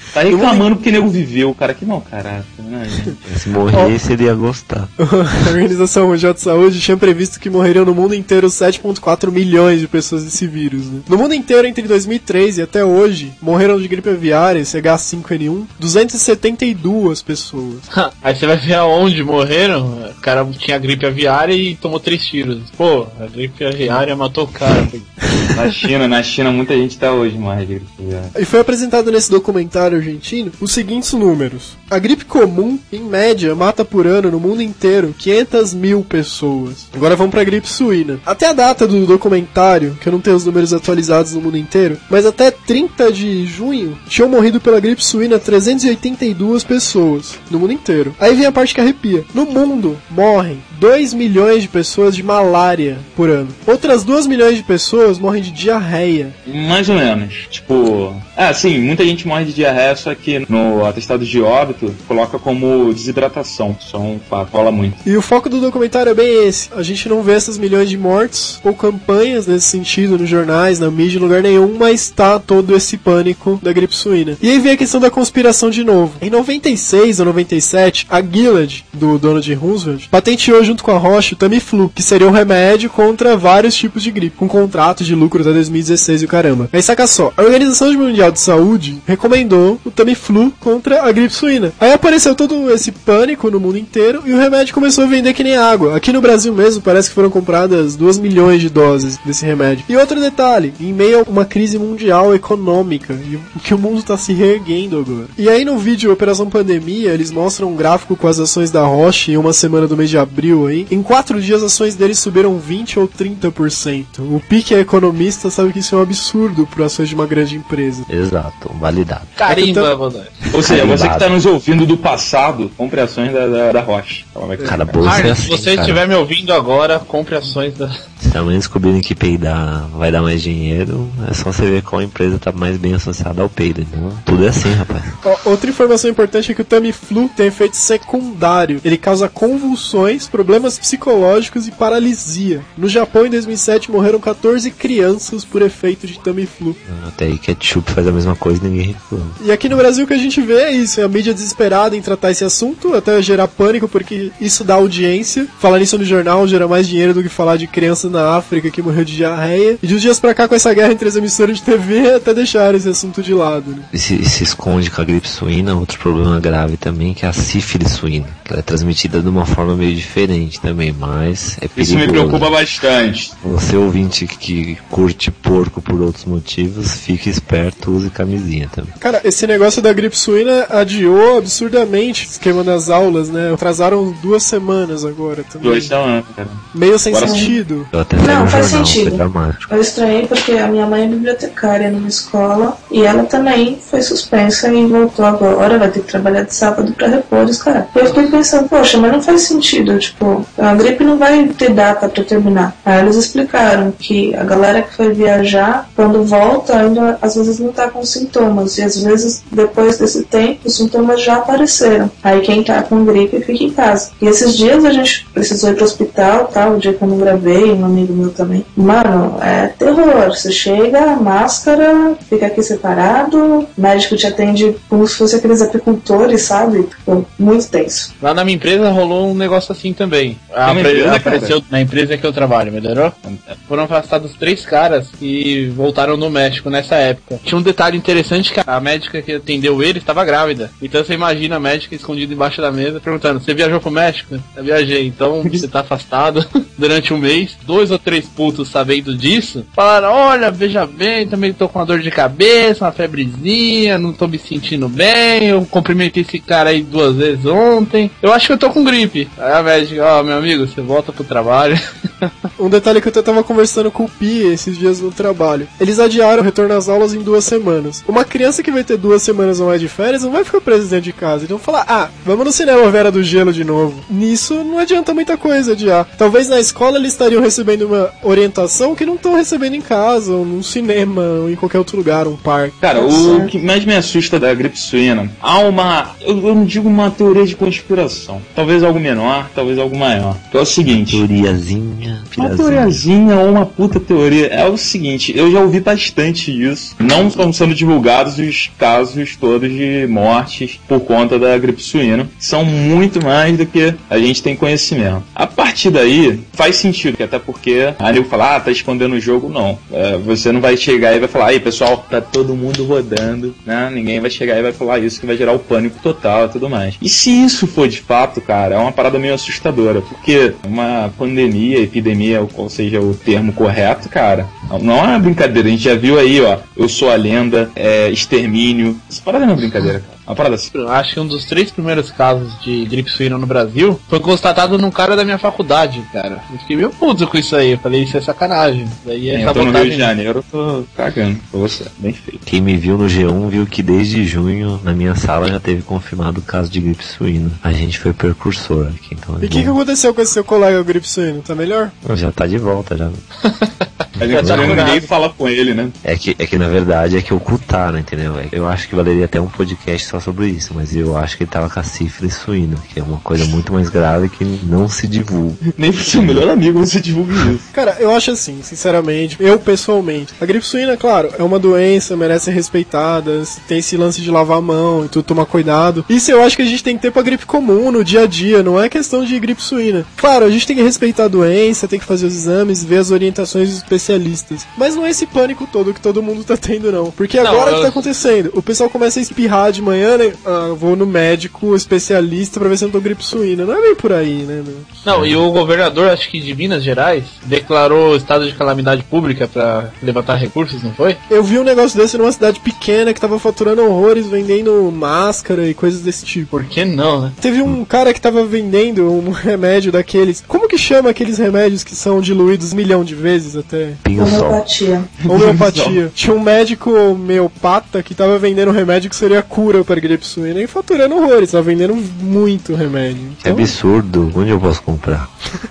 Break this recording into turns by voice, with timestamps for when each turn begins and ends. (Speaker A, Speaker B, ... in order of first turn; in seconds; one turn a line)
Speaker A: 0.1-3.3
Speaker B: 0.3-0.7
Speaker C: 3.3-4.9
Speaker B: 5.0-17.9
Speaker D: 17.9-25.1
Speaker A: 25.5-28.3
Speaker B: 28.4-56.4
Speaker A: 56.5-65.0
Speaker B: 65.0-118.1
Speaker C: 118.1-119.4
Speaker D: 119.4-120.3
Speaker B: 119.5-119.9
Speaker A: 120.5-125.2
Speaker C: 120.6-121.3
Speaker B: 124.6-124.8
Speaker C: 124.6-126.0
Speaker D: 125.0-127.9
Speaker C: 128.2-135.2
Speaker B: 135.2-146.8
Speaker C: 146.9-149.4
Speaker B: 149.4-163.9
Speaker C: 163.9-172.5
Speaker A: 171.8-173.3
Speaker C: 173.4-179.0
Speaker B: 179.0-185.9
Speaker A: 185.6-187.5
Speaker B: 186.7-187.9
Speaker E: 187.2-187.6
Speaker C: 187.9-189.7
Speaker E: 188.2-228.1
Speaker D: 228.2-233.2
Speaker A: 230.7-231.6
Speaker A: 233.2-233.6
Speaker D: 233.7-262.3
Speaker B: 262.6-282.8
Speaker A: 282.8-291.2
Speaker E: 283.0-283.5
Speaker C: 290.9-293.1
Speaker A: 292.4-330.7
Speaker D: 330.7-340.1
Speaker A: 339.3-342.4
Speaker C: 342.4-349.8
Speaker B: 349.4-351.9
Speaker C: 352.1-353.2
Speaker D: 353.4-355.1
Speaker C: 354.2-354.9
Speaker A: 354.2-355.9
Speaker C: 356.0-366.5
Speaker A: 365.8-367.7
Speaker B: 367.7-395.0
Speaker D: 387.4-388.0
Speaker D: 395.1-401.2
Speaker C: 395.1-395.4
Speaker B: 401.3-406.5
Speaker D: 406.5-407.4
Speaker B: 407.4-414.0
Speaker C: 414.0-414.6
Speaker E: 414.2-415.1
Speaker A: 415.2-416.0
Speaker B: 415.3-423.7
Speaker C: 423.4-425.3